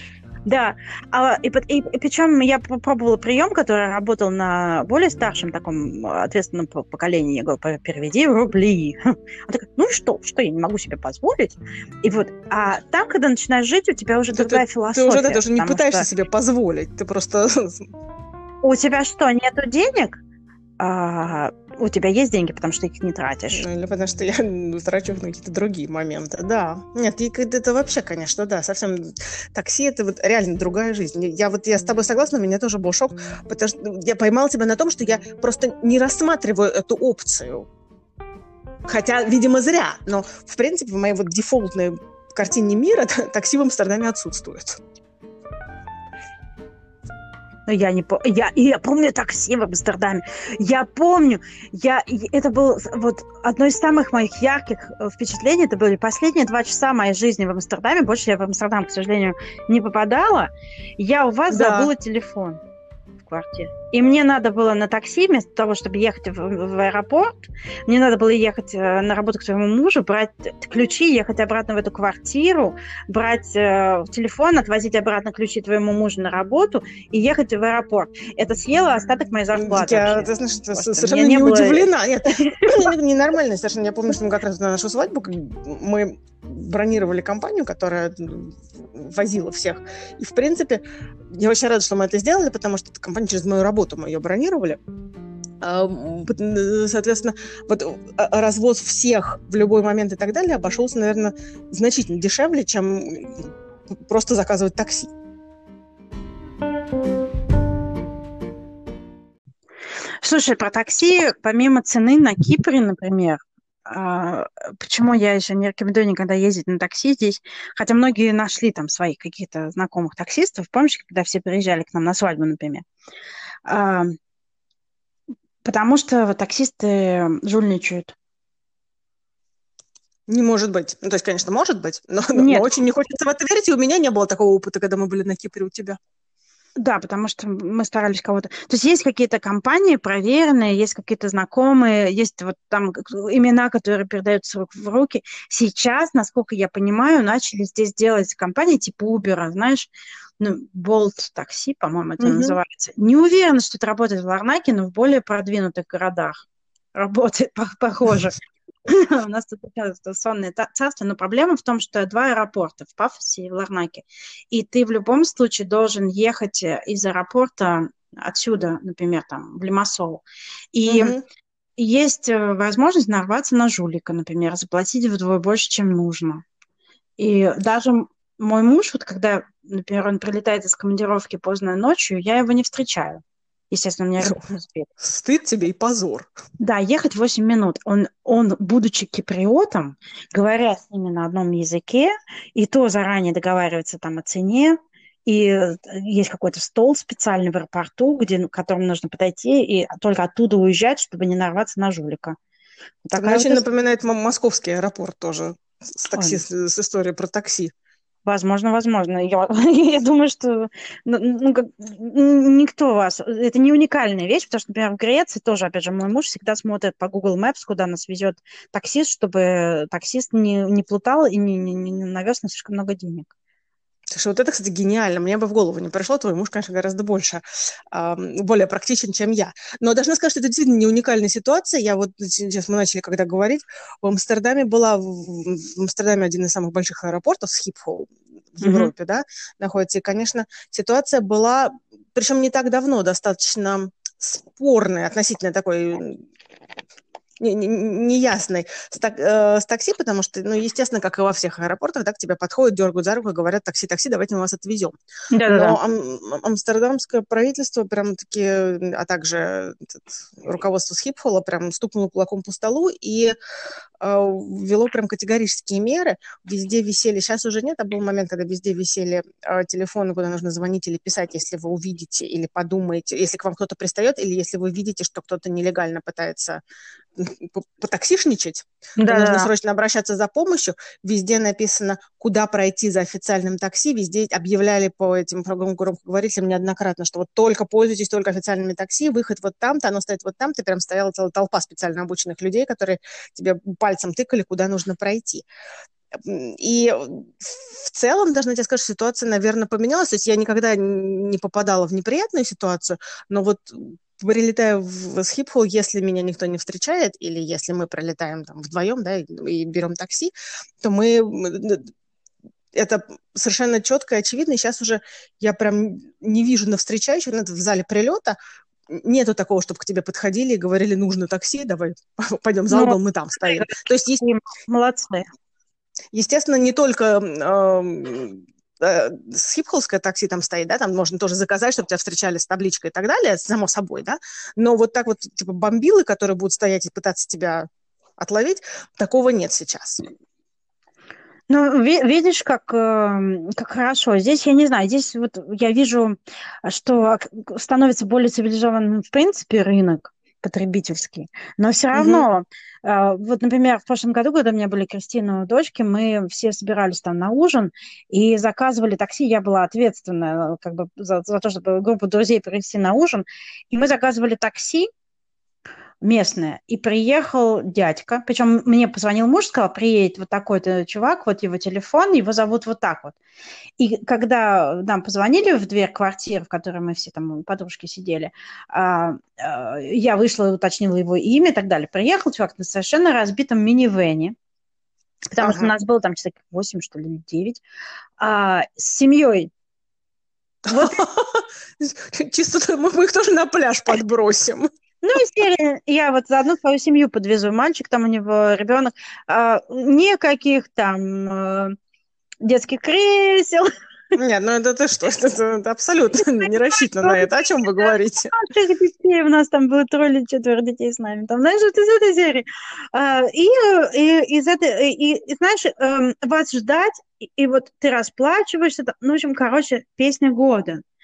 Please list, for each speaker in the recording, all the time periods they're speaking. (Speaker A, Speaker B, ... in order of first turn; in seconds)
Speaker A: 0.5-16.1, 18.6-20.2, 20.8-23.7, 47.7-62.6, 63.2-82.9, 110.2-122.8, 123.7-124.2, 125.6-128.2, 132.3-132.8, 136.8-171.2, 171.8-176.4, 177.2-184.9, 186.6-202.4, 203.1-203.6, 206.2-206.4, 208.2-223.3, 238.6-238.9, 255.3-255.8, 279.0-279.5, 322.7-325.2, 341.5-364.9, 366.0-373.2, 373.8-384.4, 385.3-387.6, 388.2-389.5, 390.7-391.0, 395.0-401.8, 402.4-403.7, 407.0-407.3, 408.3-420.8
Speaker B: 14.3-17.9, 23.5-37.7, 38.9-44.8, 61.5-61.9, 79.5-94.8, 95.6-105.1, 130.3-136.0, 152.2-152.6, 170.9-171.2, 185.0-186.3, 203.2-207.7, 224.1-246.2, 247.4-254.9, 255.5-263.4, 264.0-276.6, 277.2-295.4, 296.1-311.9, 312.7-318.4, 318.9-324.2, 326.1-340.0, 351.9-352.3, 385.4-385.7, 390.7-394.7, 404.1-408.3